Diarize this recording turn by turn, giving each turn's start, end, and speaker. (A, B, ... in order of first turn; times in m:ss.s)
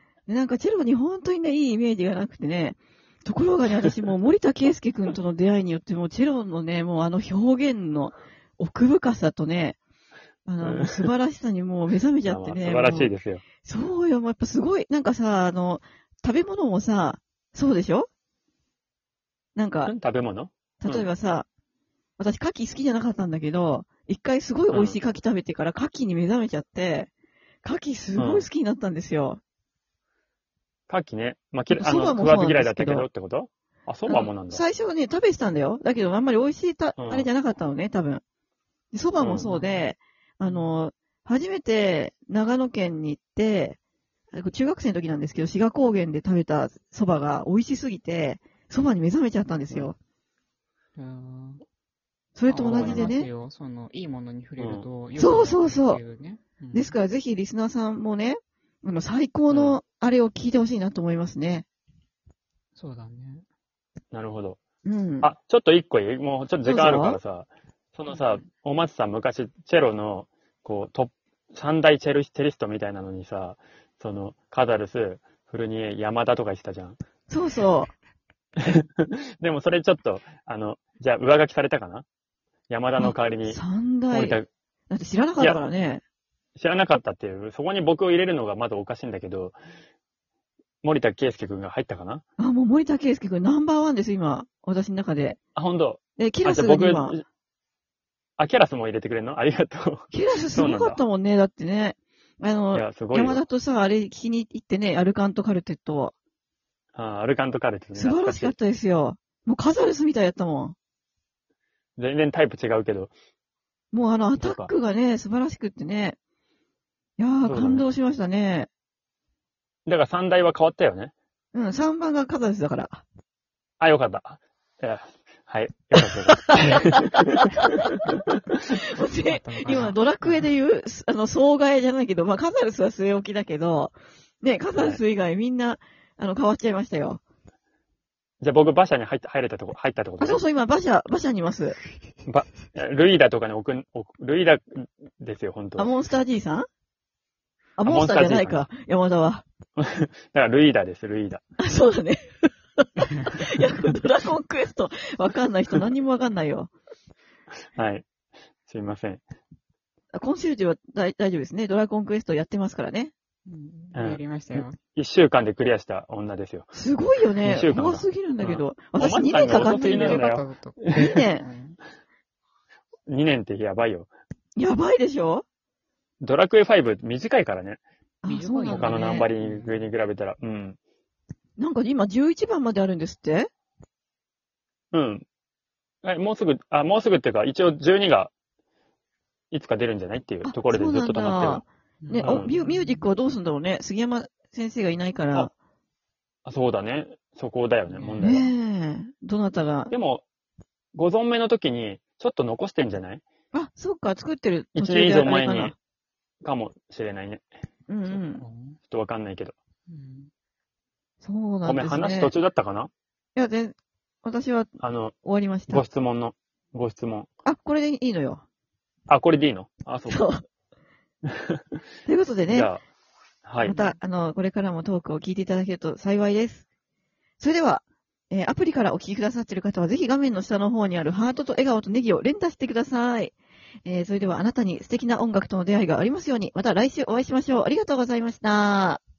0:00.3-0:09.8 A
0:10.5-0:13.1 A
0:10.6-0:11.1 B
0:12.2-0:13.4 B
0:13.6-0:18.1 A
0:19.6-0:19.9 A
0:19.9-0:21.1 B
0:20.8-0:21.5 A
0:22.2-0:27.1 A
0:24.7-0:25.0 B
0:27.6-0:29.4 A
0:28.2-0:28.5 B
0:30.9-0:34.6 B
0:31.8-0:33.1 A
0:34.1-0:38.2 A
0:37.0-0:37.3 B
0:38.9-0:43.8 A
0:39.2-0:39.5 B
0:39.4-0:39.9 C
0:40.5-0:40.8 C
0:44.3-0:50.0 A
0:51.0-0:51.6 C
0:52.4-0:53.3 A
0:52.5-0:57.0 C
0:52.6-0:53.1 B
0:54.6-0:54.9 B
0:55.2-0:56.0 A
0:56.7-1:01.7 A
0:59.5-0:59.8 B
1:02.8-1:03.4 C
1:04.1-1:04.6 B
1:04.8-1:05.3 A
1:05.2-1:17.0 B
1:06.6-1:07.2 A
1:08.1-1:08.5 C
1:17.3-1:17.9 A
1:18.6-1:22.1 B
1:22.7-1:24.5 B
1:23.0-1:26.0 A
1:26.6-1:29.6 B
1:30.8-1:32.2 B
1:32.4-1:35.4 A
1:35.6-1:37.2 B
1:36.2-1:37.1 A
1:38.4-1:41.0 B
1:40.1-1:46.1 A
1:42.7-1:43.4 B
1:47.0-1:48.6 B
1:48.0-1:50.8 A
1:52.0-1:53.1 B
1:53.9-1:56.2 A
1:54.4-1:54.7 B
1:57.2-1:58.7 A
1:57.4-1:57.8 B
1:59.9-2:01.1 B
2:01.5-2:03.0 A
2:03.8-2:07.2 B
2:07.2-2:07.7 A
2:08.7-2:17.2 A
2:09.0-2:10.5 C
2:09.7-2:09.9 B
2:14.7-2:15.0 B
2:18.4-2:20.4 B
2:20.2-2:21.8 A
2:22.2-2:25.9 B
2:25.8-2:26.7 A
2:27.8-2:29.4 A
2:27.8-2:28.6 B
2:29.8-2:31.4 B
2:31.6-2:36.7 A
2:37.7-2:38.0 B
2:38.7-2:39.2 B
2:40.1-2:43.1 A
2:43.5-2:44.8 C
2:44.0-2:46.7 B
2:46.7-2:50.3 A
2:47.4-2:51.1 B
2:48.4-2:51.8 C
2:50.9-2:51.5 A
2:53.1-2:54.1 B
2:54.6-2:55.4 A
2:56.2-2:57.8 B
2:58.2-2:59.3 A
2:58.2-2:59.9 C
2:58.7-3:00.8 B
3:01.6-3:03.5 A
3:04.9-3:05.2 B
3:06.0-3:08.3 B
3:09.5-3:11.6 B
3:10.4-3:15.5 A
3:12.0-3:13.1 C
3:12.2-3:12.5 B
3:16.4-3:18.5 B
3:17.9-3:18.3 C
3:18.2-3:19.9 A
3:19.9-3:20.2 B
3:20.9-3:23.2 B
3:23.5-3:25.8 A
3:24.8-3:25.7 B
3:26.4-3:27.4 B
3:27.9-3:28.4 A
3:28.1-3:28.8 C
3:28.9-3:29.6 B
3:29.9-3:30.3 C
3:31.2-3:32.4 A
3:31.7-3:32.9 B
3:33.4-3:34.7 A
3:34.8-3:35.2 B
3:35.2-3:35.8 A
3:35.7-3:37.3 B
3:37.4-3:38.4 A
3:39.1-3:40.2 B
3:40.1-3:40.4 A
3:42.1-3:42.7 A
3:42.5-3:42.8 B
3:43.4-3:43.8 B
3:43.6-3:46.6 A
3:47.4-3:53.3 A
3:53.8-3:59.0 A